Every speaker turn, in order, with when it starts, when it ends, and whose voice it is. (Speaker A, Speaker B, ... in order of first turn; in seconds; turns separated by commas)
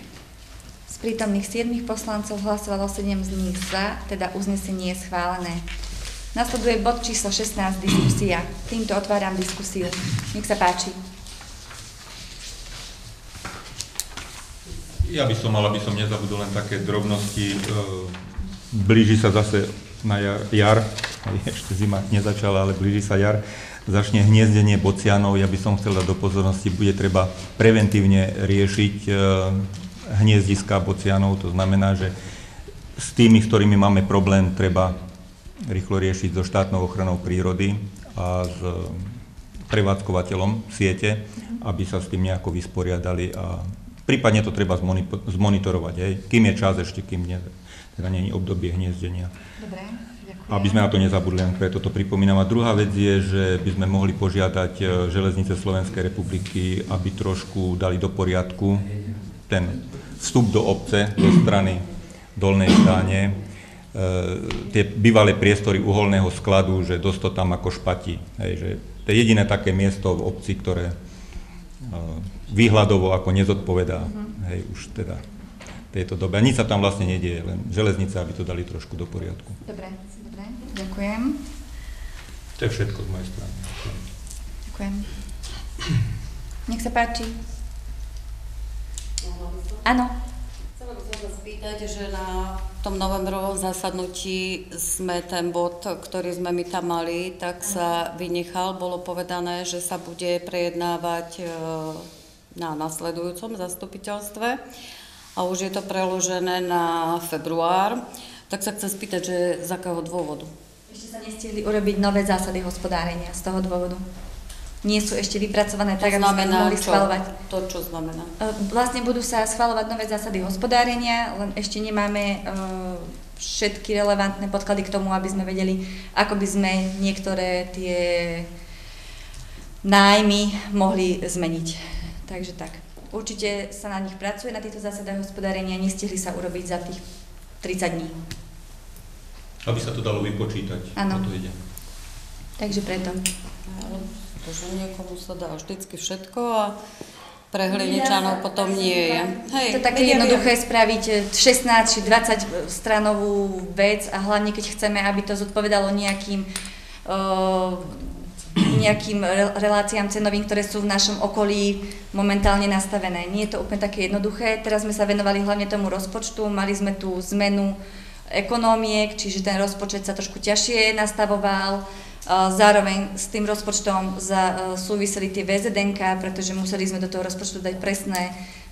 Speaker A: 0.9-5.6, Speaker A: 6.3-11.0, Speaker B: 15.0-32.1, Speaker B: 33.0-34.9, Speaker B: 35.6-49.3, Speaker A: 49.6-50.9, Speaker B: 50.5-58.9, Speaker B: 59.5-63.4, Speaker B: 63.9-71.0, Speaker B: 71.8-75.2, Speaker B: 75.9-79.6, Speaker A: 79.7-81.4, Speaker B: 82.6-84.0, Speaker A: 84.7-85.1, Speaker A: 86.7-87.4, Speaker C: 89.2-89.8, Speaker A: 89.8-90.1, Speaker C: 90.8-104.6, Speaker C: 105.3-110.5, Speaker A: 110.9-114.0, Speaker A: 114.8-117.3, Speaker C: 116.0-118.3, Speaker A: 118.4-128.5, Speaker A: 129.8-137.0, Speaker A: 137.6-138.2, Speaker B: 139.6-141.6, Speaker A: 140.9-141.3, Speaker A: 142.6-143.2, Speaker C: 143.7-146.8, Speaker C: 147.5-150.5, Speaker A: 147.7-156.5, Speaker A: 157.1-167.8, Speaker A: 168.3-178.3